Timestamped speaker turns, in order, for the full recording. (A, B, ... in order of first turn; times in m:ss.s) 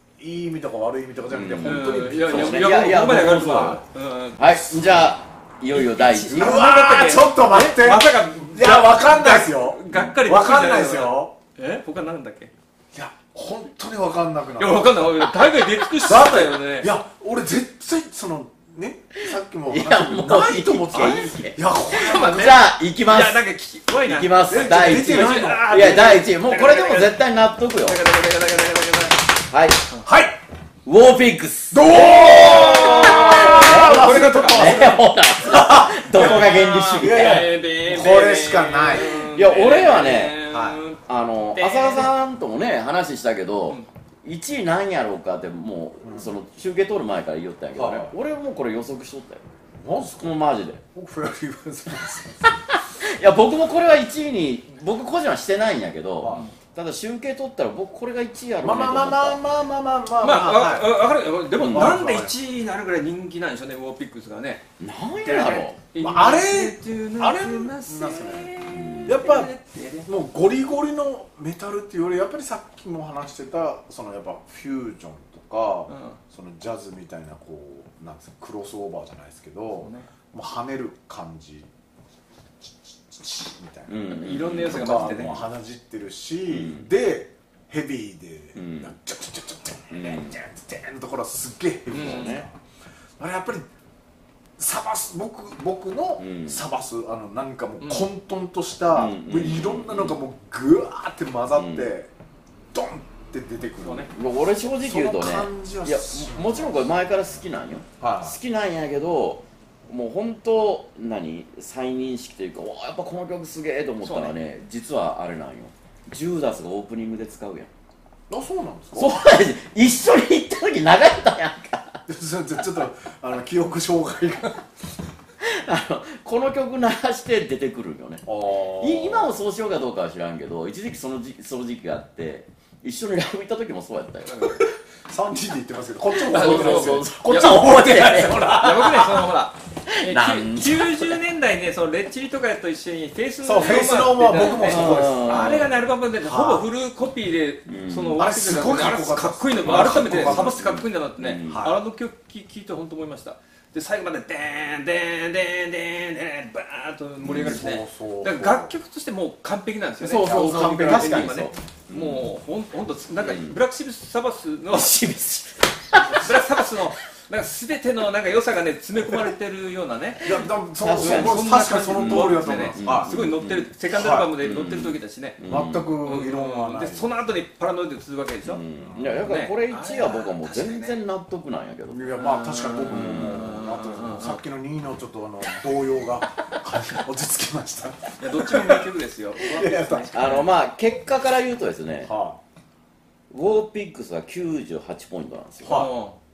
0:00.2-0:02.7 A
0:01.3-0:03.8 B
0:01.6-0:04.6 C
0:04.4-0:06.7 B
0:05.7-0:12.5 C
0:06.3-0:11.3 A
0:09.9-0:10.2 B
0:12.9-0:15.1 A
0:14.6-0:16.9 C
0:16.0-0:22.6 A
0:19.7-0:23.4 B
0:20.9-0:21.4 C
0:21.9-0:27.2 C
0:24.0-0:28.0 B
0:24.5-0:26.0 A
0:27.8-0:29.2 C
0:29.5-0:29.8 B
0:30.0-0:30.4 A
0:30.8-0:37.5 B
0:31.7-0:39.2 A
0:31.9-0:35.0 C
0:36.2-0:41.0 C
0:39.1-0:40.5 B
0:40.5-0:40.8 A
0:41.1-0:49.4 B
0:41.5-0:42.1 C
0:46.0-0:46.3 A
0:47.8-0:48.1 A
0:49.8-0:50.4 A
0:50.2-0:50.8 B
0:50.9-0:52.6 A
0:52.4-0:59.4 B
0:56.2-0:56.5 A
0:58.6-1:01.0 A
1:00.2-1:04.6 C
1:01.5-1:02.0 B
1:01.6-1:02.4 A
1:04.8-1:05.8 B
1:05.2-1:10.1 C
1:06.0-1:09.5 A
1:08.7-1:09.3 B
1:10.0-1:21.7 A
1:15.9-1:16.2 C
1:19.7-1:20.1 C
1:22.6-1:32.5 A
1:23.9-1:25.4 B
1:24.1-1:25.4 C
1:26.5-1:26.9 B
1:28.6-1:28.9 B
1:29.9-1:30.4 B
1:31.9-1:32.3 C
1:31.9-1:32.4 B
1:33.2-1:33.7 A
1:34.6-1:42.1 A
1:36.2-1:36.6 B
1:37.8-1:38.1 C
1:38.9-1:40.2 B
1:41.5-1:41.9 B
1:42.7-1:44.1 A
1:43.8-1:44.1 C
1:44.1-1:57.7 B
1:44.6-1:46.8 A
1:48.0-1:48.4 A
1:54.0-1:54.3 C
1:58.3-1:59.2 A
1:58.9-2:02.0 B
2:02.1-2:04.7 A
2:05.4-2:14.5 B
2:08.2-2:09.3 A
2:14.2-2:14.6 C
2:15.1-2:19.3 A
2:16.2-2:18.8 B
2:16.3-2:17.6 C
2:18.5-2:45.0 C
2:19.9-2:21.2 B
2:23.4-2:26.7 A
2:24.4-2:25.7 B
2:27.6-2:28.2 B
2:28.2-2:30.6 A
2:29.6-2:31.7 B
2:31.5-2:31.8 A
2:37.2-2:38.7 A
2:40.0-2:42.2 B
2:40.1-2:41.4 A
2:43.2-2:43.6 B
2:44.7-2:46.3 B
2:46.1-2:50.4 C
2:50.2-2:53.1 A
2:50.8-2:53.7 B
2:51.0-2:55.4 C
2:53.9-2:54.3 A
2:54.4-2:55.9 B
2:55.4-2:57.1 A
2:56.0-2:58.6 C
2:58.4-3:02.2 B
2:58.8-2:59.2 A
2:59.2-3:01.0 C
3:01.9-3:10.2 A
3:02.2-3:04.4 C
3:02.9-3:03.5 B
3:08.2-3:10.5 C
3:10.1-3:12.1 B
3:12.0-3:12.4 A
3:13.3-3:15.9 B
3:15.6-3:15.9 A
3:15.7-3:16.2 C